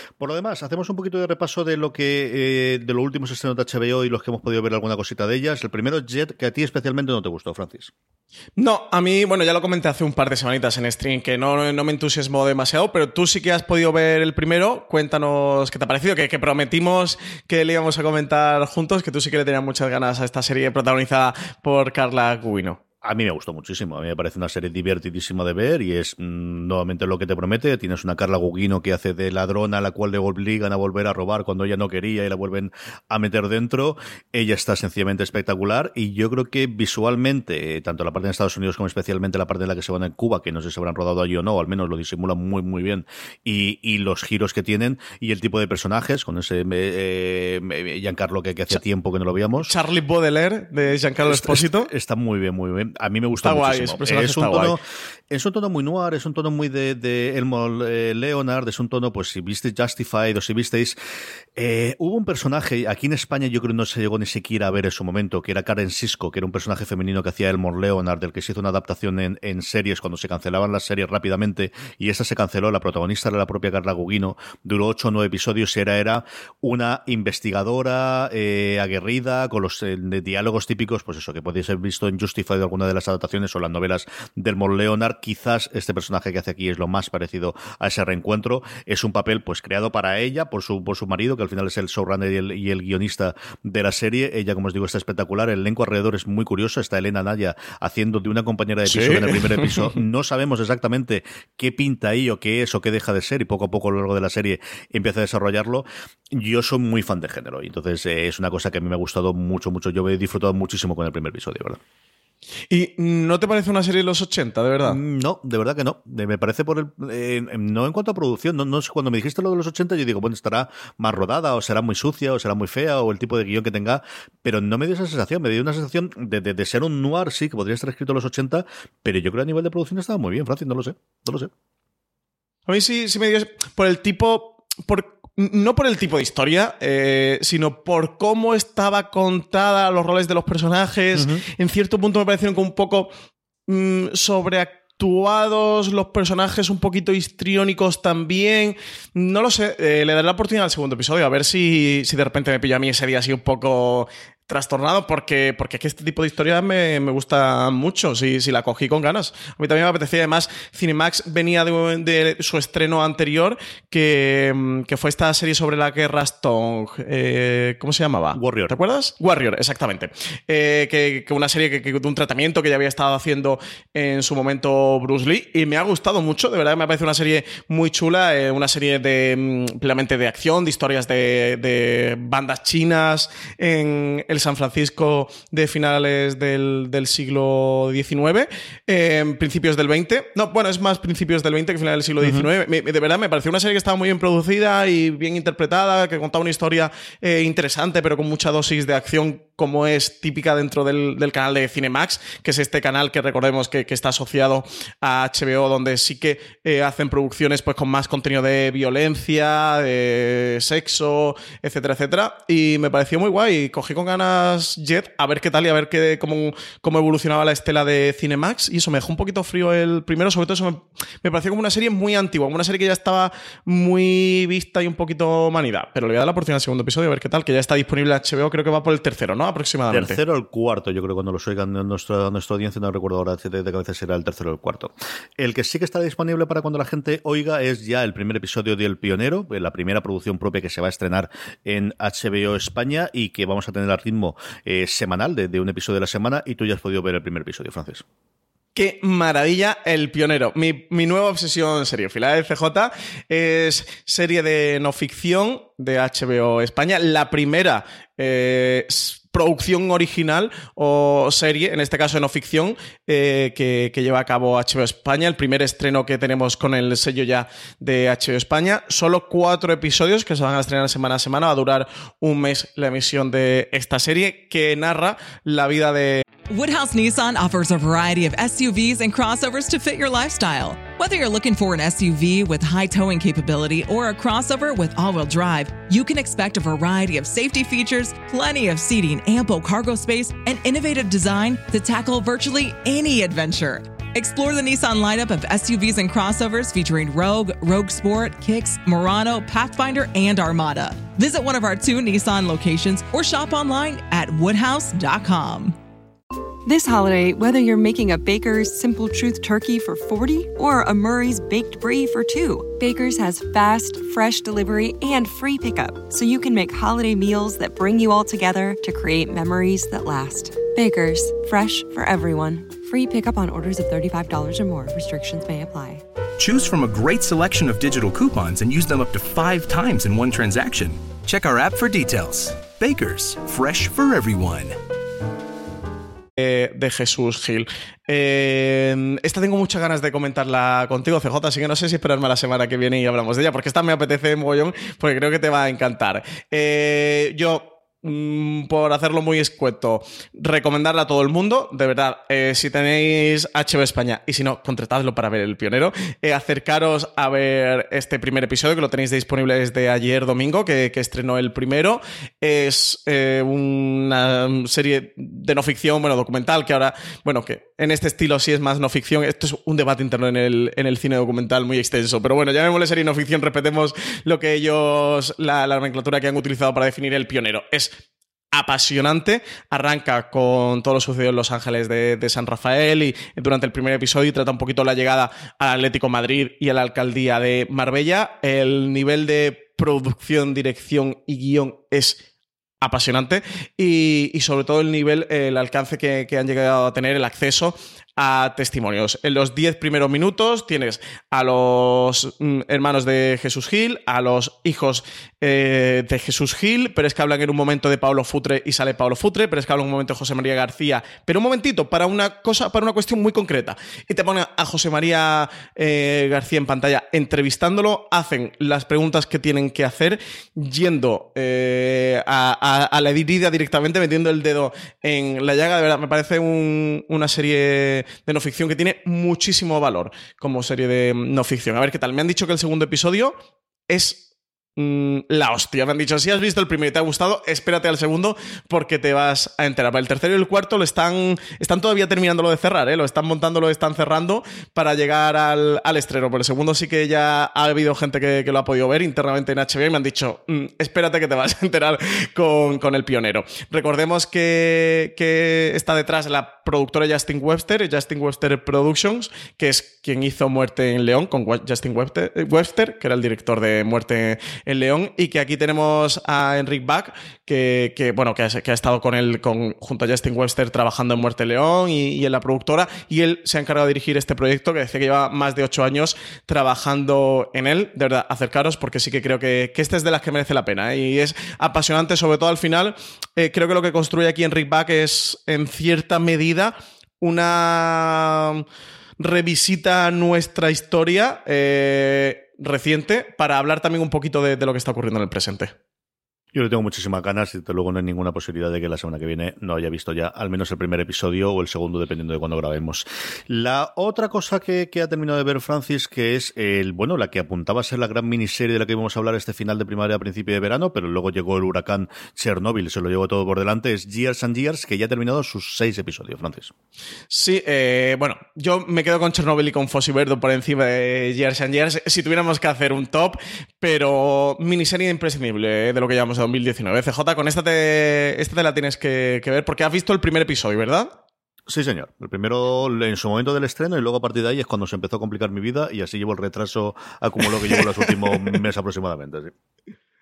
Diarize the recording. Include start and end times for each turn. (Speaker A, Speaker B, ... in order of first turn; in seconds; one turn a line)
Speaker A: 0.2-7.9
Speaker B: 8.6-22.8
Speaker A: 23.0-49.7
Speaker B: 49.6-51.9
Speaker A: 51.2-61.0
Speaker B: 53.4-54.8
Speaker A: 61.5-111.8
Speaker B: 98.9-99.9
Speaker B: 112.7-115.0
Speaker A: 114.8-131.5
Speaker B: 132.7-143.1
Speaker A: 141.1-141.4
Speaker B: 143.7-230.2
Speaker A: 168.3-168.7
Speaker A: 192.2-192.5
Speaker A: 229.9-248.0
Speaker B: 248.8-276.2
Speaker C: 276.5-305.8
Speaker D: 306.6-326.0
Speaker E: 326.4-334.8
Speaker B: 336.4-378.0
Speaker B: 378.5-392.2
Speaker B: 392.8-433.3
Speaker B: 433.9-434.2
Speaker B: 434.8-488.6
Speaker B: 489.2-495.7
Speaker A: 496.5-516.7
Speaker B: 517.3-531.1
Speaker A: 531.7-539.5
Speaker B: 537.7-538.1